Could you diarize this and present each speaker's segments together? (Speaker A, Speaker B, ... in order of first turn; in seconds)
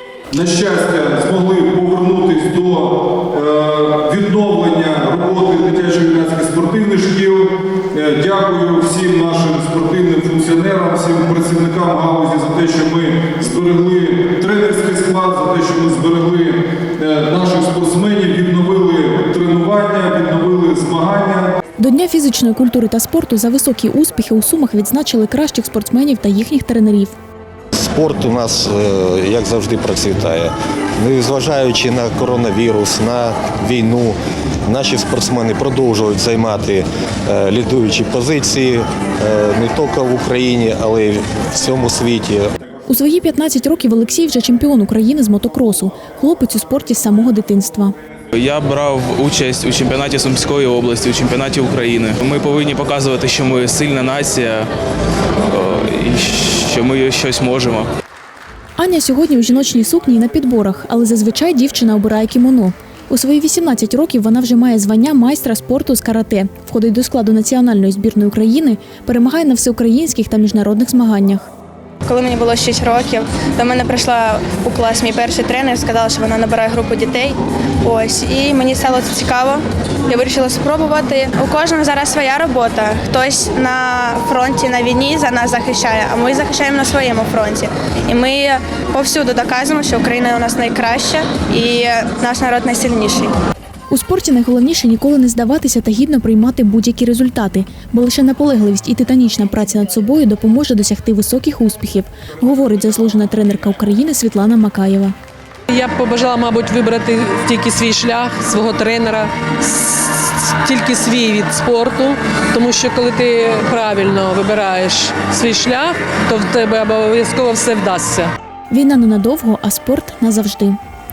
Speaker A: 0.3-21.5
Speaker B: 21.8-27.1, 42.9-47.9, 58.8-71.5, 93.9-105.1, 118.7-120.8
Speaker C: 27.8-34.1, 34.7-42.4
Speaker D: 48.3-54.7, 55.5-57.9
Speaker E: 72.0-93.3
Speaker F: 105.7-118.3